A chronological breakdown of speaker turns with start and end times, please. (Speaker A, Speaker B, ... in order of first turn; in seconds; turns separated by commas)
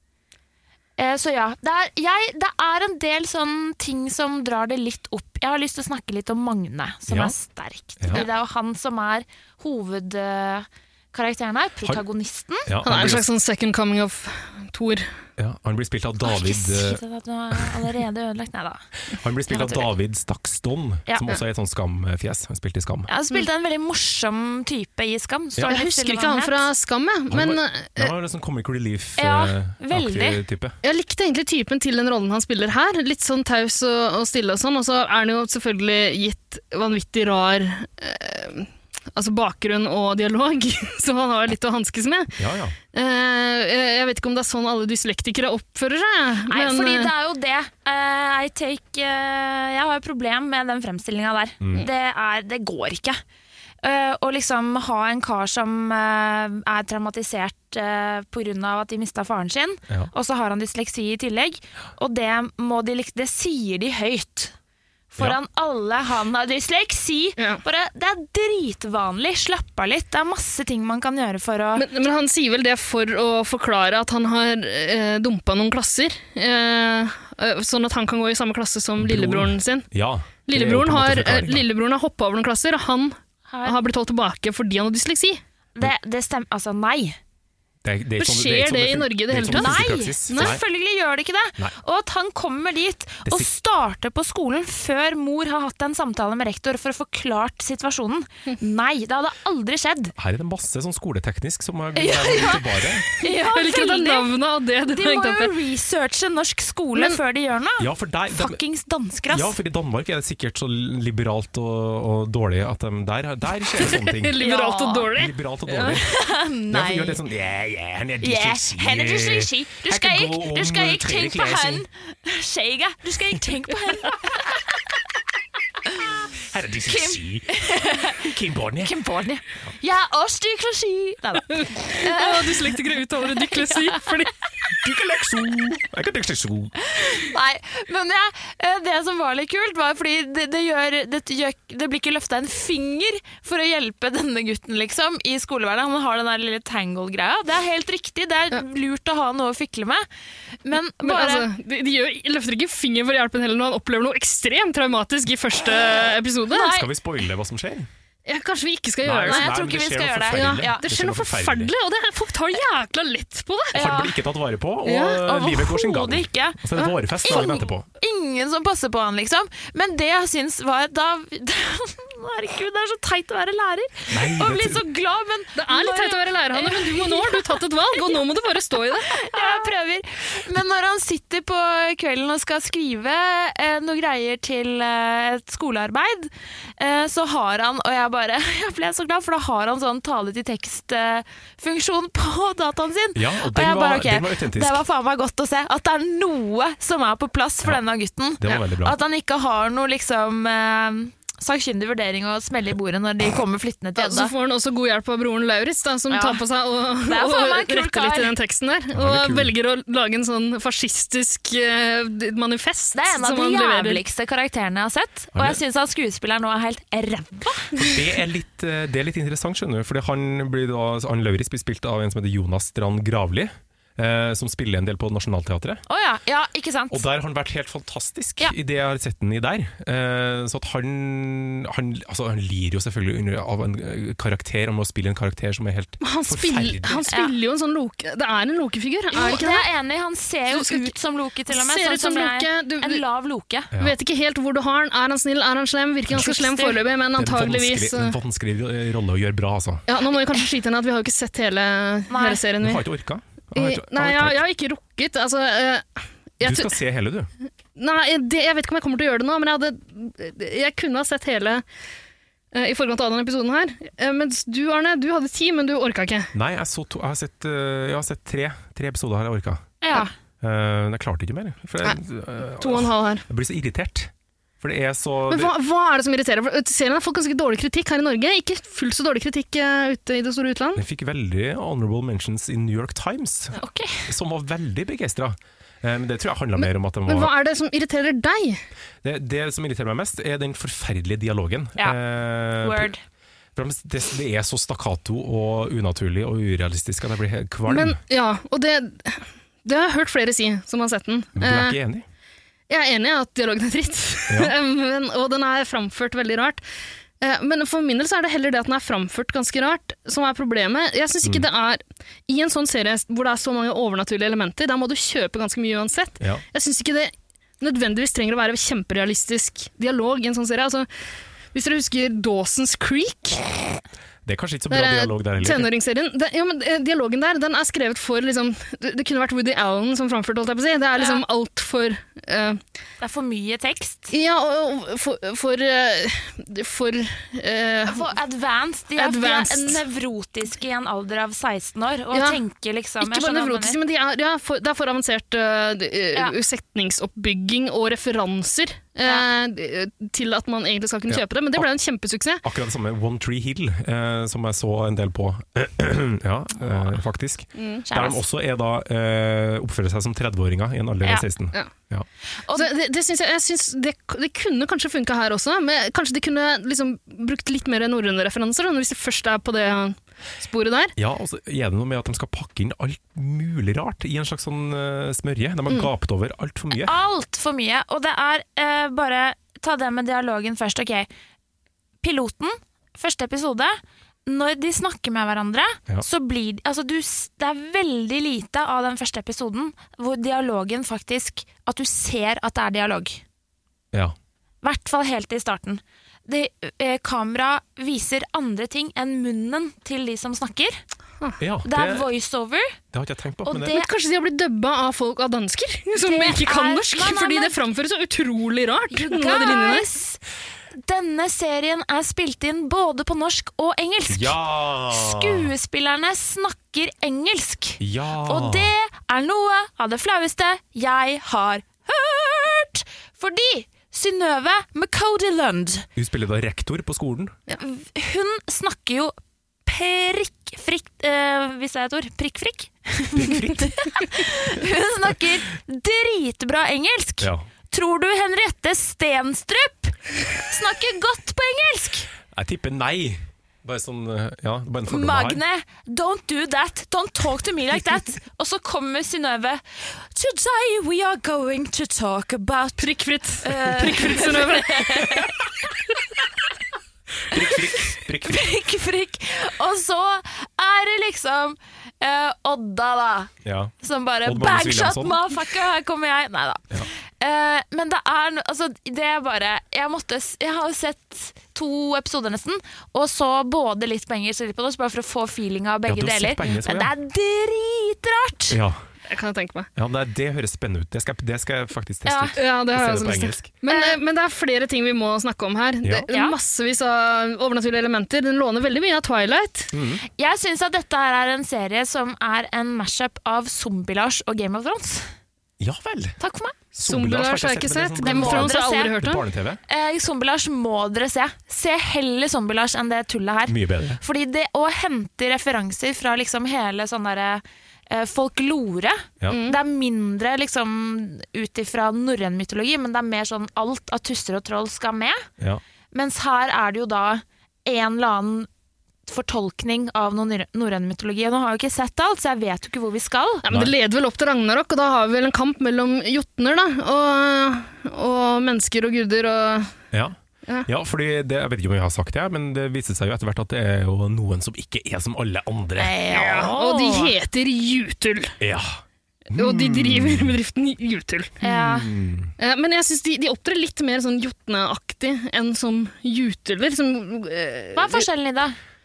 Speaker A: 1.0-12.7, Speaker B: 7.1-7.3, Speaker B: 8.0-8.2, Speaker B: 12.7-13.3, Speaker C: 12.8-15.1, Speaker B: 15.4-17.0, Speaker A: 16.2-18.8, Speaker B: 19.1-23.1, Speaker A: 19.5-19.9, Speaker A: 23.1-26.7, Speaker C: 25.7-28.1, Speaker B: 27.3-30.8, Speaker A: 29.2-30.4, Speaker C: 30.8-42.4, Speaker B: 42.4-42.7, Speaker C: 42.9-47.1, Speaker A: 46.5-53.2, Speaker B: 51.6-51.9, Speaker A: 53.8-64.5, Speaker A: 65.1-71.9, Speaker C: 71.8-79.9, Speaker B: 79.0-81.6, Speaker C: 80.5-85.4, Speaker A: 83.5-83.8, Speaker A: 85.8-87.2, Speaker B: 87.8-90.6, Speaker C: 88.2-90.6, Speaker A: 89.5-100.1, Speaker B: 100.2-103.0, Speaker A: 102.0-104.3, Speaker C: 103.2-105.5, Speaker A: 104.9-109.5, Speaker B: 107.8-108.6, Speaker B: 109.3-114.4, Speaker C: 113.8-116.0, Speaker A: 114.4-115.1, Speaker B: 115.1-116.1, Speaker A: 116.0-117.2, Speaker B: 116.7-121.8, Speaker A: 118.2-124.6, Speaker A: 125.9-126.3, Speaker B: 126.5-128.9, Speaker A: 126.8-128.3, Speaker A: 128.8-132.8, Speaker C: 131.5-134.3, Speaker A: 133.3-134.0, Speaker B: 134.7-136.7, Speaker A: 136.9-150.1, Speaker A: 150.6-151.5, Speaker C: 151.0-156.7, Speaker A: 156.5-156.9, Speaker B: 156.6-157.9, Speaker C: 158.2-159.5, Speaker B: 159.0-161.7, Speaker A: 159.2-160.8, Speaker C: 160.3-163.7, Speaker A: 163.7-164.1, Speaker B: 163.7-167.8, Speaker C: 164.9-165.2, Speaker A: 164.9-178.2, Speaker B: 174.1-174.8, Speaker C: 175.6-179.6, Speaker A: 179.1-204.3, Speaker B: 193.1-194.8, Speaker B: 198.4-199.0, Speaker C: 204.0-214.0, Speaker A: 206.1-206.4, Speaker A: 207.0-208.3, Speaker B: 208.9-209.5, Speaker A: 212.9-217.9, Speaker B: 215.3-215.6, Speaker B: 217.8-225.8, Speaker A: 225.9-227.0, Speaker B: 226.9-237.1, Speaker C: 236.0-239.7, Speaker A: 239.1-243.7, Speaker C: 240.5-240.9, Speaker C: 241.5-243.0, Speaker C: 243.8-248.2, Speaker A: 246.1-246.8, Speaker B: 247.2-249.8, Speaker C: 249.9-252.8, Speaker A: 252.1-252.4, Speaker B: 252.6-254.4, Speaker C: 253.5-256.8, Speaker B: 256.4-257.3, Speaker C: 257.8-261.6, Speaker C: 262.5-266.3, Speaker B: 266.3-269.7, Speaker A: 269.8-270.1, Speaker B: 270.4-275.5, Speaker C: 272.6-273.2, Speaker C: 275.3-280.8, Speaker B: 280.8-283.6, Speaker A: 283.6-284.1, Speaker B: 284.1-287.3, Speaker C: 287.1-288.6, Speaker B: 289.0-292.9, Speaker A: 292.6-293.0, Speaker B: 293.6-298.0, Speaker C: 297.7-301.8, Speaker B: 301.4-302.0, Speaker C: 302.7-306.6, Speaker C: 307.2-320.9, Speaker C: 321.5-323.5, Speaker B: 324.2-325.7, Speaker C: 324.7-332.6, Speaker A: 330.9-331.2, Speaker A: 333.0-334.1, Speaker C: 334.1-338.1, Speaker A: 337.9-343.8, Speaker C: 338.9-339.8, Speaker C: 342.1-342.4, Speaker C: 343.0-352.4, Speaker B: 351.1-351.7, Speaker B: 352.4-362.1, Speaker C: 357.5-357.8, Speaker A: 357.9-358.2, Speaker C: 362.5-370.9, Speaker B: 370.9-376.9, Speaker A: 376.7-381.1, Speaker A: 382.0-393.2, Speaker A: 394.6-400.8, Speaker B: 401.4-402.1, Speaker A: 401.6-402.8, Speaker B: 402.9-403.8, Speaker A: 403.5-403.9, Speaker C: 403.6-409.9, Speaker A: 406.0-407.6, Speaker A: 408.9-410.2, Speaker A: 410.7-414.4, Speaker B: 414.1-415.5, Speaker A: 414.9-425.9, Speaker B: 417.8-418.7, Speaker B: 425.9-427.4, Speaker A: 427.6-429.1, Speaker A: 429.6-442.1, Speaker B: 433.2-433.7, Speaker B: 442.3-445.4, Speaker A: 444.9-452.9, Speaker C: 452.8-455.3, Speaker A: 453.4-455.5, Speaker B: 457.3-458.5, Speaker A: 457.9-463.3, Speaker B: 463.4-463.7, Speaker A: 463.8-478.6, Speaker B: 464.2-465.2, Speaker B: 475.9-476.9, Speaker B: 478.5-478.8, Speaker C: 479.1-479.7, Speaker B: 479.8-483.5, Speaker A: 482.1-482.4, Speaker C: 482.4-489.7, Speaker A: 483.7-484.0, Speaker B: 489.7-490.0, Speaker A: 490.2-495.1, Speaker B: 495.6-496.2, Speaker A: 496.2-496.5, Speaker B: 496.7-499.6, Speaker C: 496.9-499.2, Speaker A: 498.0-498.9, Speaker A: 499.7-515.2, Speaker B: 503.5-504.0, Speaker C: 509.3-509.6, Speaker A: 515.9-518.5, Speaker A: 519.1-523.4, Speaker C: 523.4-529.7, Speaker B: 523.5-523.7, Speaker B: 529.9-536.0, Speaker A: 535.8-537.1, Speaker C: 536.1-538.4, Speaker B: 538.4-540.3, Speaker C: 539.3-541.4, Speaker A: 541.4-541.9, Speaker B: 541.4-542.3, Speaker C: 542.4-548.1, Speaker A: 547.7-548.6